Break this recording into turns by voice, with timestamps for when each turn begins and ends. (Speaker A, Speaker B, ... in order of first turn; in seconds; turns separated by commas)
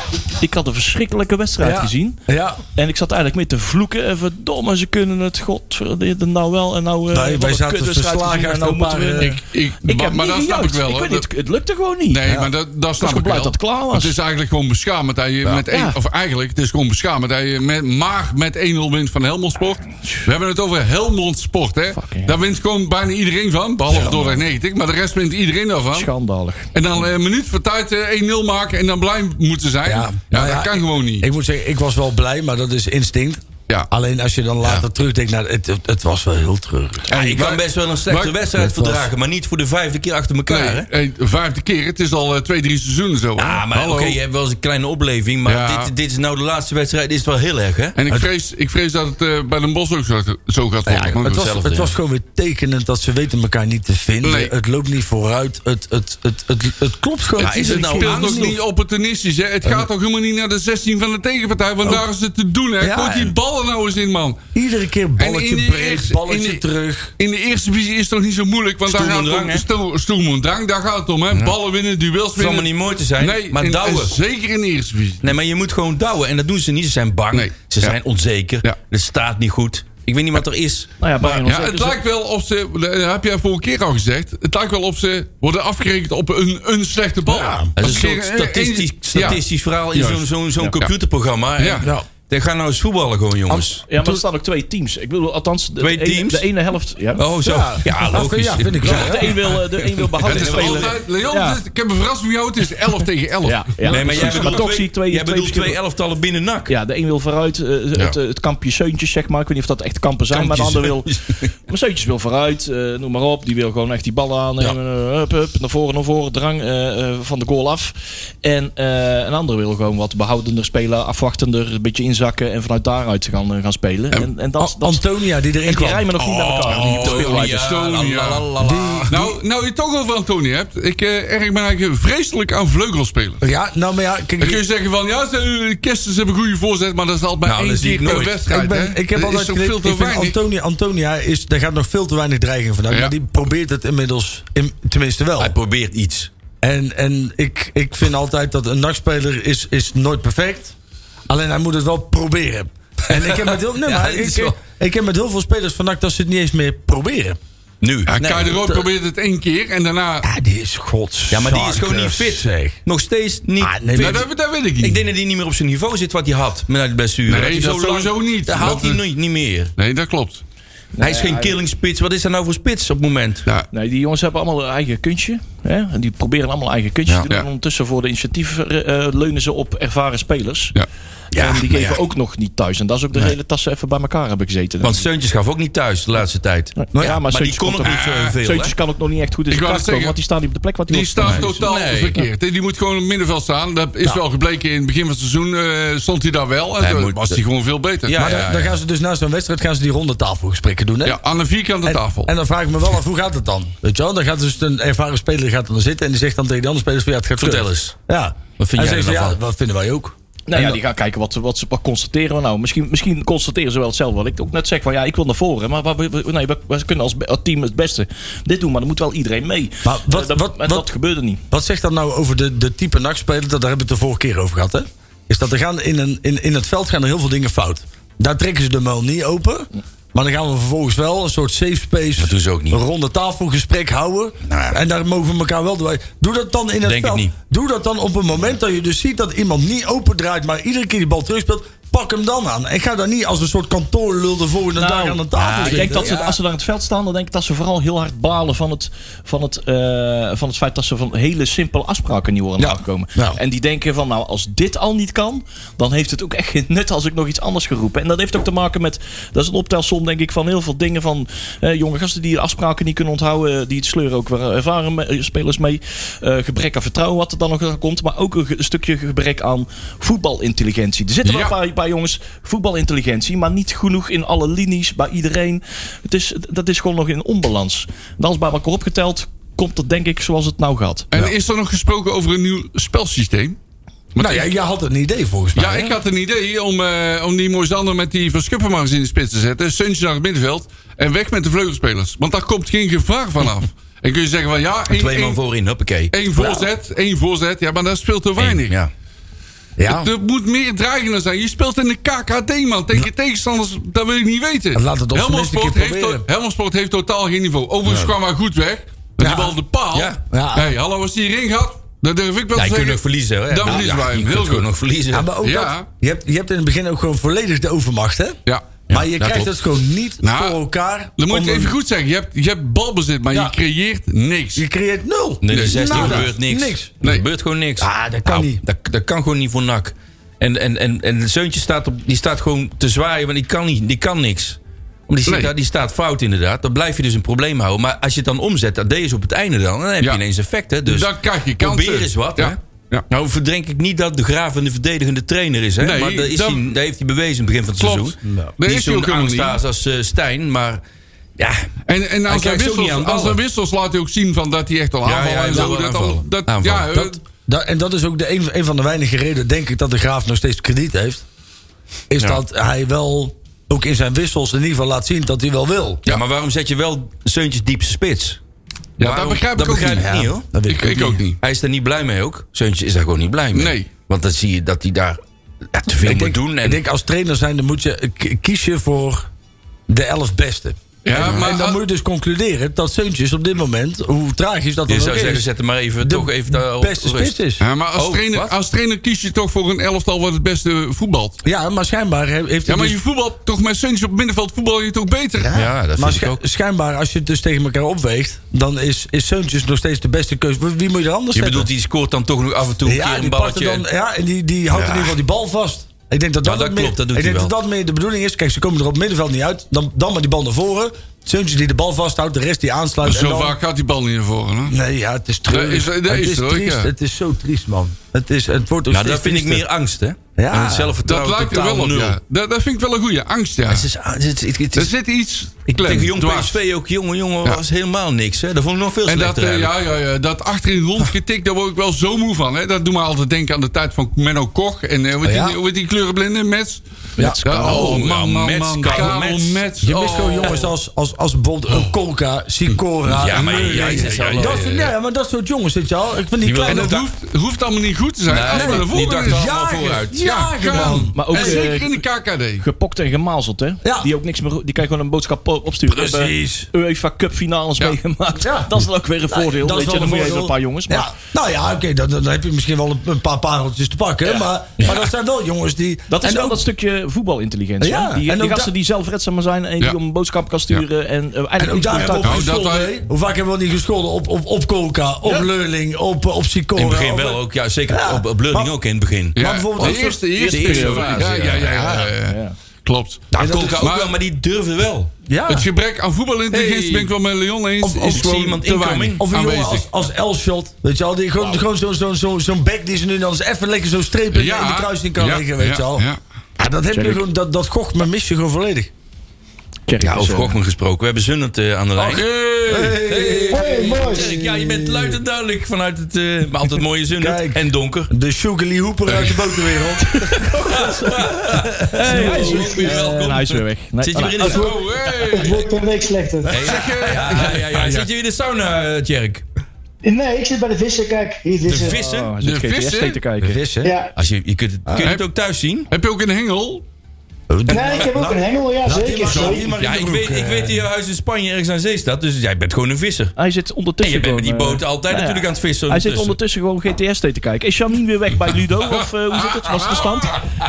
Speaker A: 0.4-2.2, Speaker B: 1.6-2.6, Speaker A: 2.8-12.2, Speaker B: 7.1-9.4, Speaker C: 9.2-11.3, Speaker C: 12.1-26.1, Speaker B: 12.2-12.5, Speaker A: 13.0-14.1, Speaker A: 15.7-15.9, Speaker A: 20.0-20.3, Speaker A: 21.9-22.4, Speaker A: 23.9-24.4, Speaker A: 25.9-27.0, Speaker C: 26.7-31.3, Speaker B: 29.8-37.0, Speaker C: 37.1-38.4, Speaker D: 37.1-40.9, Speaker B: 38.5-39.1, Speaker C: 40.5-44.2, Speaker D: 43.4-48.0, Speaker C: 45.5-45.9, Speaker C: 48.0-51.5, Speaker B: 50.9-58.6, Speaker D: 51.3-51.9, Speaker C: 54.2-54.5, Speaker C: 57.4-64.4, Speaker D: 57.4-58.6, Speaker B: 62.8-63.4, Speaker B: 64.5-67.1, Speaker C: 65.2-66.6, Speaker C: 67.2-75.3, Speaker D: 68.9-69.6, Speaker D: 71.3-71.6, Speaker D: 72.3-74.2, Speaker D: 75.2-80.9, Speaker C: 77.3-78.0, Speaker A: 81.0-82.0, Speaker C: 81.2-89.4, Speaker B: 87.2-87.7, Speaker D: 87.8-93.8, Speaker C: 89.9-90.9, Speaker C: 91.6-91.9, Speaker B: 91.8-92.1, Speaker B: 93.5-94.2, Speaker A: 93.9-97.2, Speaker D: 95.8-96.5, Speaker D: 97.2-101.0, Speaker B: 97.4-99.3, Speaker A: 98.8-101.6, Speaker C: 100.2-104.6, Speaker A: 103.4-105.8, Speaker D: 103.8-106.7, Speaker A: 106.7-125.0, Speaker D: 110.3-111.5, Speaker B: 124.6-126.0, Speaker A: 125.6-127.7, Speaker C: 126.2-128.5, Speaker D: 126.6-129.3, Speaker B: 128.6-129.3, Speaker C: 129.1-133.4, Speaker B: 133.4-134.6, Speaker C: 134.4-140.3, Speaker D: 137.4-138.4, Speaker B: 138.2-145.6, Speaker D: 145.4-146.3, Speaker B: 146.6-150.7, Speaker B: 151.3-157.4, Speaker D: 153.1-154.6, Speaker D: 157.8-158.8, Speaker C: 158.1-160.3, Speaker B: 160.2-162.8, Speaker D: 161.3-164.3, Speaker B: 163.6-164.2, Speaker C: 163.9-165.0, Speaker D: 164.8-169.7, Speaker C: 167.3-169.0, Speaker C: 169.8-170.4, Speaker A: 170.9-171.6, Speaker D: 171.0-173.5, Speaker A: 173.7-180.7, Speaker D: 181.3-182.0, Speaker A: 181.3-185.0, Speaker D: 184.8-188.7, Speaker A: 186.8-191.7, Speaker B: 186.9-187.2, Speaker C: 187.8-188.4, Speaker C: 189.5-190.2, Speaker C: 190.9-198.4, Speaker D: 191.2-192.2, Speaker D: 196.8-197.4, Speaker D: 198.1-198.8, Speaker B: 198.2-201.2, Speaker C: 201.0-202.3, Speaker B: 201.8-210.8, Speaker D: 207.4-207.9, Speaker D: 208.6-209.4, Speaker A: 210.5-221.4, Speaker B: 219.8-220.9, Speaker B: 221.5-246.2, Speaker D: 232.2-232.8, Speaker D: 234.4-234.8, Speaker D: 236.8-237.3, Speaker A: 244.8-281.1, Speaker D: 245.3-246.4, Speaker B: 252.6-253.4, Speaker C: 271.2-271.6, Speaker C: 281.1-283.6, Speaker C: 284.1-284.5, Speaker B: 284.1-286.0, Speaker C: 285.6-295.4, Speaker D: 294.9-296.1, Speaker C: 296.1-298.8, Speaker B: 296.4-296.6, Speaker D: 298.4-298.9, Speaker B: 299.8-300.1, Speaker C: 299.9-314.7, Speaker B: 304.7-306.2, Speaker D: 307.9-308.1, Speaker B: 309.2-309.6, Speaker D: 309.9-310.2, Speaker B: 310.3-310.7, Speaker D: 312.5-315.3, Speaker B: 315.1-321.8, Speaker C: 315.4-315.9, Speaker C: 318.4-319.4, Speaker D: 318.9-319.4, Speaker C: 320.2-320.6, Speaker C: 321.2-324.6, Speaker B: 324.5-326.9, Speaker D: 325.4-342.6, Speaker C: 325.5-326.3, Speaker B: 327.8-328.6, Speaker C: 335.2-335.5, Speaker C: 340.9-343.0, Speaker D: 343.1-350.8, Speaker C: 345.8-346.6, Speaker C: 347.8-349.6, Speaker B: 348.2-348.5, Speaker D: 351.4-351.7, Speaker C: 351.9-357.2, Speaker D: 352.3-353.4, Speaker D: 355.0-357.0, Speaker B: 356.9-361.2, Speaker B: 362.1-366.0, Speaker D: 366.1-368.4, Speaker C: 369.0-371.4, Speaker D: 369.0-370.5, Speaker B: 370.0-371.2, Speaker D: 371.4-375.2, Speaker C: 373.5-373.9, Speaker D: 375.7-376.8, Speaker B: 376.0-379.3, Speaker B: 379.9-385.5, Speaker C: 381.0-381.8, Speaker D: 381.1-381.5, Speaker D: 384.9-387.4, Speaker B: 386.0-387.6, Speaker C: 387.6-391.4, Speaker D: 387.9-388.5, Speaker B: 391.4-393.0, Speaker C: 392.6-395.6, Speaker B: 395.4-401.7, Speaker D: 395.5-396.4, Speaker D: 401.3-403.8, Speaker B: 402.8-413.6, Speaker D: 404.7-405.1, Speaker D: 406.4-407.5, Speaker C: 413.0-414.8, Speaker B: 414.7-419.6, Speaker C: 415.5-416.9, Speaker D: 418.9-422.2, Speaker B: 420.4-420.9, Speaker C: 421.0-423.9, Speaker D: 423.7-424.9, Speaker C: 424.7-426.6, Speaker D: 425.7-429.7, Speaker C: 429.1-436.8, Speaker B: 435.2-435.6, Speaker B: 437.2-437.9, Speaker A: 437.2-437.8, Speaker C: 437.4-440.7, Speaker D: 437.4-439.6, Speaker B: 439.8-447.0, Speaker C: 442.7-444.8, Speaker D: 443.1-444.9, Speaker D: 446.4-447.1, Speaker C: 446.6-449.5, Speaker D: 448.3-451.0, Speaker B: 448.5-451.6, Speaker C: 450.2-452.6, Speaker A: 451.1-452.0, Speaker A: 452.6-461.1, Speaker B: 453.8-454.1, Speaker B: 455.9-456.7, Speaker B: 458.4-466.6, Speaker A: 466.1-472.5, Speaker B: 467.8-468.7, Speaker B: 471.6-478.7, Speaker C: 472.2-472.9, Speaker D: 476.8-482.1, Speaker B: 479.4-480.5, Speaker C: 479.4-484.1, Speaker A: 480.4-481.3, Speaker A: 482.2-482.6, Speaker D: 483.3-485.1, Speaker B: 483.4-483.9, Speaker B: 485.3-485.7, Speaker C: 485.5-489.9, Speaker D: 486.5-487.1, Speaker D: 487.8-489.2, Speaker B: 487.8-488.3, Speaker B: 489.2-496.1, Speaker C: 494.3-496.2, Speaker B: 496.6-498.9, Speaker A: 496.9-497.2, Speaker A: 499.9-500.5, Speaker D: 500.0-502.2, Speaker C: 502.0-503.0, Speaker B: 502.6-505.2, Speaker D: 503.0-508.1, Speaker E: 503.5-504.3, Speaker B: 507.2-510.1, Speaker C: 509.1-509.4, Speaker A: 510.0-511.1, Speaker D: 510.4-514.8, Speaker B: 511.6-512.2, Speaker A: 511.9-514.6, Speaker E: 512.1-512.9, Speaker E: 514.4-516.6, Speaker C: 514.5-515.7, Speaker D: 516.5-519.4, Speaker C: 516.5-518.1, Speaker E: 520.0-522.0, Speaker D: 521.6-522.3, Speaker A: 521.8-523.6, Speaker C: 522.4-523.2, Speaker B: 523.4-523.9, Speaker E: 523.8-524.1, Speaker D: 524.1-525.9, Speaker C: 525.9-526.8, Speaker B: 527.5-530.8, Speaker E: 527.7-529.7, Speaker C: 529.3-529.6, Speaker D: 529.8-533.3, Speaker A: 533.4-540.4, Speaker D: 534.0-536.4, Speaker C: 538.8-540.4